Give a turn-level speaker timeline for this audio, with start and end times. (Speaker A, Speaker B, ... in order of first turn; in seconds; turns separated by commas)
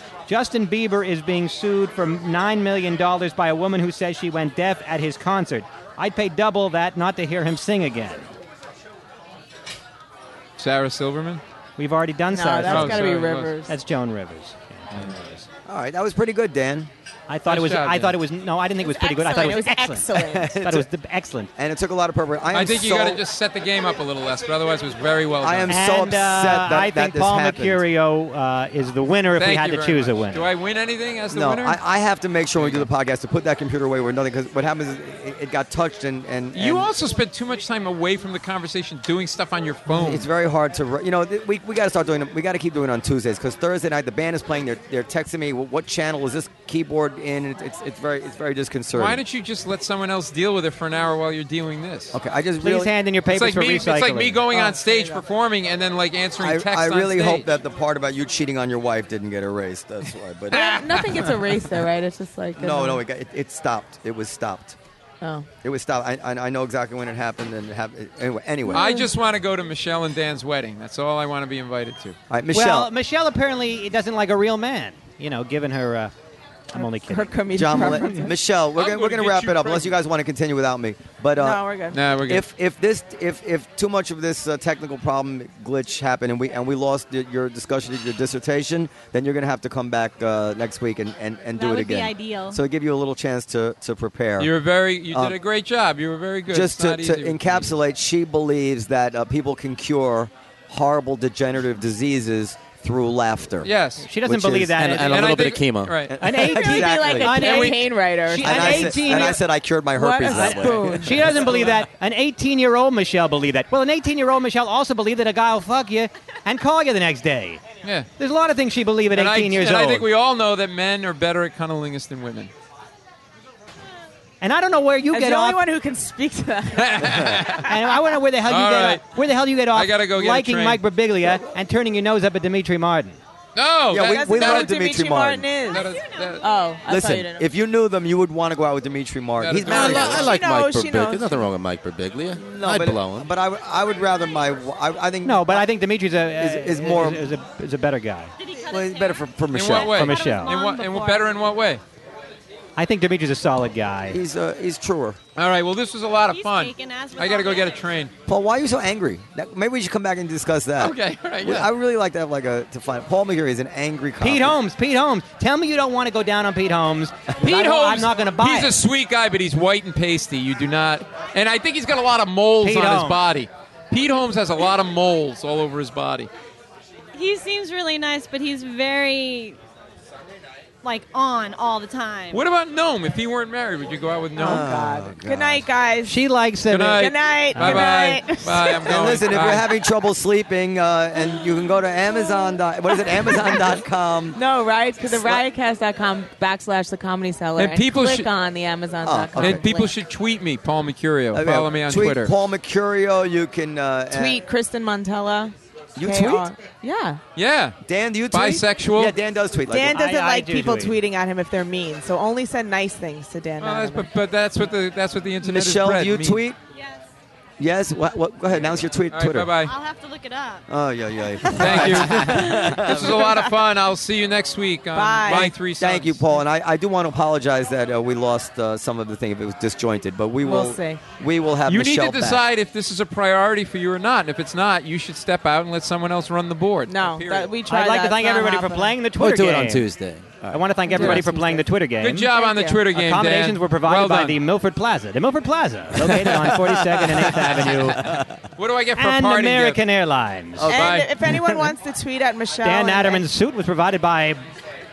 Speaker A: 0.3-8.3, Speaker B: 10.6-11.4, Speaker A: 11.8-15.5, Speaker C: 12.3-13.7, Speaker B: 12.7-13.5, Speaker D: 15.7-16.9, Speaker A: 17.3-21.5, Speaker B: 17.5-18.2, Speaker C: 18.8-20.6, Speaker D: 20.2-20.9, Speaker D: 21.6-23.2, Speaker B: 22.5-25.8, Speaker D: 25.4-27.8, Speaker A: 25.7-30.5, Speaker B: 29.3-31.8, Speaker D: 31.3-36.9, Speaker B: 32.5-32.9, Speaker B: 36.5-40.3, Speaker D: 39.9-49.2, Speaker B: 48.9-52.2, Speaker D: 52.1-52.9, Speaker A: 52.6-54.4, Speaker B: 53.3-57.5, Speaker C: 54.5-55.2, Speaker D: 56.4-60.6, Speaker C: 60.5-63.0, Speaker B: 60.5-61.5, Speaker D: 62.6-64.8, Speaker C: 65.2-65.5, Speaker D: 65.6-68.9, Speaker C: 68.7-69.1, Speaker B: 68.7-72.2, Speaker D: 72.3-72.9, Speaker A: 72.5-76.1, Speaker A: 76.7-77.8, Speaker C: 76.8-78.3, Speaker D: 77.5-81.6, Speaker B: 78.7-80.0, Speaker C: 81.4-82.0, Speaker B: 81.9-82.5, Speaker D: 82.2-94.5, Speaker E: 91.5-92.6, Speaker B: 94.4-97.7, Speaker D: 95.1-95.4, Speaker D: 96.5-103.7, Speaker B: 103.6-104.1, Speaker A: 104.0-105.6, Speaker D: 104.2-104.8, Speaker F: 104.7-106.0, Speaker B: 105.0-106.2, Speaker D: 106.1-107.7, Speaker A: 106.2-109.4, Speaker C: 106.3-109.4, Speaker D: 108.4-111.7, Speaker C: 109.9-111.7, Speaker A: 110.2-117.6, Speaker B: 117.8-118.1, Speaker A: 118.2-120.0, Speaker B: 119.1-122.5, Speaker A: 124.4-125.6, Speaker C: 125.1-128.0, Speaker B: 126.7-127.8, Speaker A: 127.6-133.2, Speaker B: 128.4-130.8, Speaker B: 133.5-134.7, Speaker D: 133.9-135.5, Speaker C: 134.0-137.5, Speaker B: 135.7-136.5, Speaker E: 135.8-136.8, Speaker D: 136.9-140.3, Speaker B: 139.4-140.3, Speaker F: 139.7-143.3, Speaker C: 139.9-141.4, Speaker D: 142.3-145.7, Speaker A: 145.2-148.3, Speaker D: 146.3-147.3, Speaker E: 148.4-151.4, Speaker D: 148.6-150.1, Speaker B: 149.5-151.8, Speaker A: 149.8-150.5, Speaker A: 152.8-154.2, Speaker D: 154.1-155.2, Speaker B: 155.3-158.1, Speaker E: 156.3-157.8, Speaker D: 158.3-164.5, Speaker B: 160.8-161.7, Speaker A: 164.2-168.7, Speaker B: 167.4-176.3, Speaker A: 172.6-173.2, Speaker E: 177.1-179.6, Speaker E: 180.8-182.4, Speaker B: 182.3-184.7, Speaker C: 184.3-186.2, Speaker D: 184.4-185.6, Speaker A: 186.1-187.9, Speaker B: 186.7-189.7, Speaker C: 186.9-189.0, Speaker D: 188.8-194.4, Speaker C: 191.2-193.8, Speaker C: 194.3-200.0, Speaker D: 195.0-195.4, Speaker B: 197.6-198.3, Speaker D: 199.0-199.6, Speaker B: 199.4-202.3, Speaker D: 201.3-204.4, Speaker C: 204.1-207.2, Speaker D: 205.9-206.5, Speaker B: 207.3-207.8, Speaker D: 207.8-210.0, Speaker B: 208.3-209.2, Speaker C: 209.7-214.1, Speaker A: 209.9-211.0, Speaker B: 213.6-216.4, Speaker D: 215.4-216.6, Speaker E: 216.8-217.0, Speaker D: 217.6-219.5, Speaker B: 219.0-219.8, Speaker E: 219.6-220.7, Speaker D: 220.7-223.2, Speaker C: 221.5-221.9, Speaker B: 221.6-226.2, Speaker E: 222.0-222.6, Speaker C: 223.1-223.5, Speaker C: 224.9-225.5, Speaker D: 225.3-232.4, Speaker C: 230.4-231.0, Speaker B: 231.7-237.6, Speaker C: 236.9-238.9, Speaker A: 237.7-239.9, Speaker F: 239.1-241.3, Speaker A: 240.5-242.3, Speaker C: 240.9-241.7, Speaker B: 242.0-244.4, Speaker C: 242.3-242.8, Speaker A: 242.9-248.2, Speaker D: 246.4-248.3, Speaker B: 248.6-249.8, Speaker A: 249.0-250.8, Speaker D: 250.6-251.6, Speaker B: 250.6-251.1, Speaker C: 250.7-253.2, Speaker A: 252.6-254.4